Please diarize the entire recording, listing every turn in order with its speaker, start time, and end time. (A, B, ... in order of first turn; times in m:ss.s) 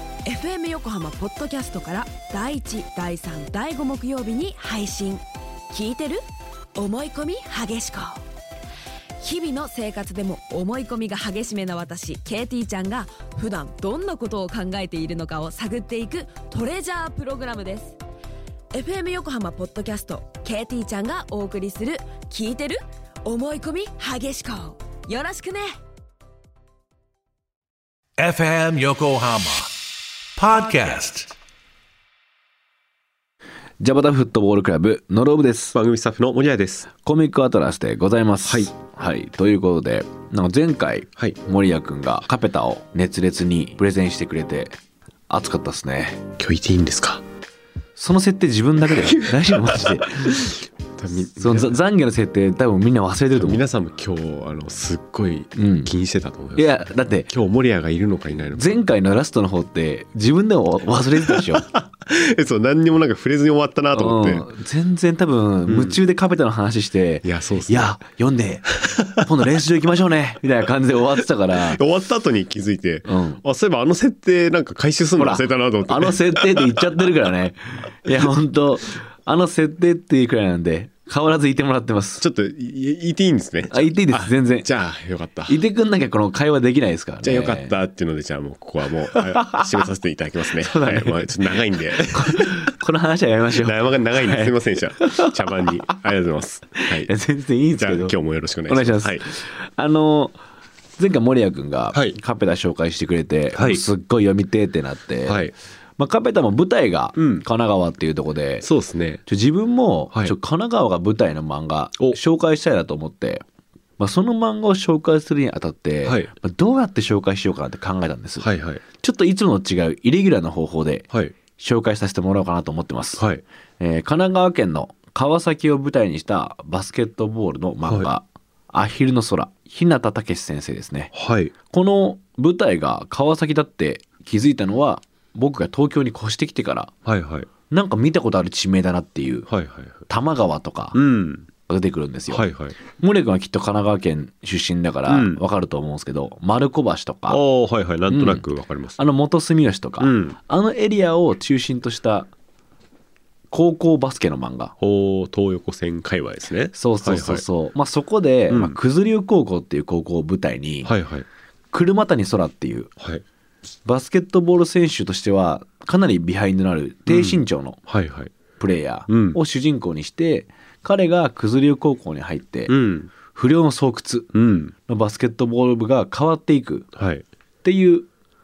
0:00.2-0:06.2 A
0:06.8-0:08.2 A
0:09.2-0:18.0 A
0:18.7-0:25.7 A
0:28.2-0:29.7 B
0:30.4-0:31.3 B
0:33.8-0:35.8 C
0:35.7-0:36.9 D
0:37.0-0:44.8 C
0:38.4-0:38.7 D
0:45.3-0:46.3 C
0:46.4-0:47.2 D
0:48.0-0:50.6 C
0:49.0-0:51.8 D
0:51.4-0:53.6 C
0:53.4-0:58.8 D
0:55.6-0:55.9 C
0:56.6-0:57.3 C
0:58.6-1:01.7 C
1:01.3-1:04.5 D
1:03.9-1:11.8 C
1:05.7-1:06.0 D
1:07.2-1:08.0 D
1:08.8-1:09.2 D
1:11.6-1:17.0 D
1:13.1-1:13.4 C
1:15.2-1:22.2 C
1:22.2-1:25.6 D
1:23.7-1:24.7 C
1:25.5-1:27.7 C
1:27.2-1:32.6 D
1:29.1-1:29.9 C
1:30.6-1:31.6 C
1:32.1-1:35.7 C
1:33.6-1:37.1 D
1:36.8-1:38.2 C
1:37.8-1:39.3 D
1:38.7-1:40.4 C
1:41.0-1:45.5 C
1:43.5-1:43.8 D
1:45.3-1:45.5 D
1:46.0-1:48.7 C
1:47.2-1:47.5 D
1:48.6-1:49.2 D
1:49.3-1:53.4 C
1:54.0-2:03.3 C
1:56.0-1:56.3 D
1:58.4-1:58.8 D
2:03.2-2:03.4 D
2:03.8-2:11.1 C
2:11.1-2:11.5 D
2:11.7-2:17.0 C
2:17.1-2:17.5 D
2:17.7-2:19.5 C
2:19.5-2:20.0 D
2:20.1-2:21.0 C
2:20.9-2:21.5 D
2:21.7-2:27.4 C
2:22.3-2:22.8 D
2:25.1-2:25.4 D
2:27.3-2:29.0 D
2:28.1-2:28.5 C
2:29.0-2:32.3 C
2:30.0-2:30.4 D
2:33.5-2:34.8 C
2:34.8-2:37.4 D
2:36.8-2:40.9 C
2:38.5-2:38.8 D
2:40.8-2:41.3 D
2:41.7-2:42.9 C
2:43.8-2:47.8 C
2:47.1-2:48.3 D
2:48.6-2:56.9 C
2:49.1-2:49.4 D
2:52.7-2:53.1 D
2:54.3-2:54.7 D
2:57.0-2:57.2 D
2:57.6-2:58.1 C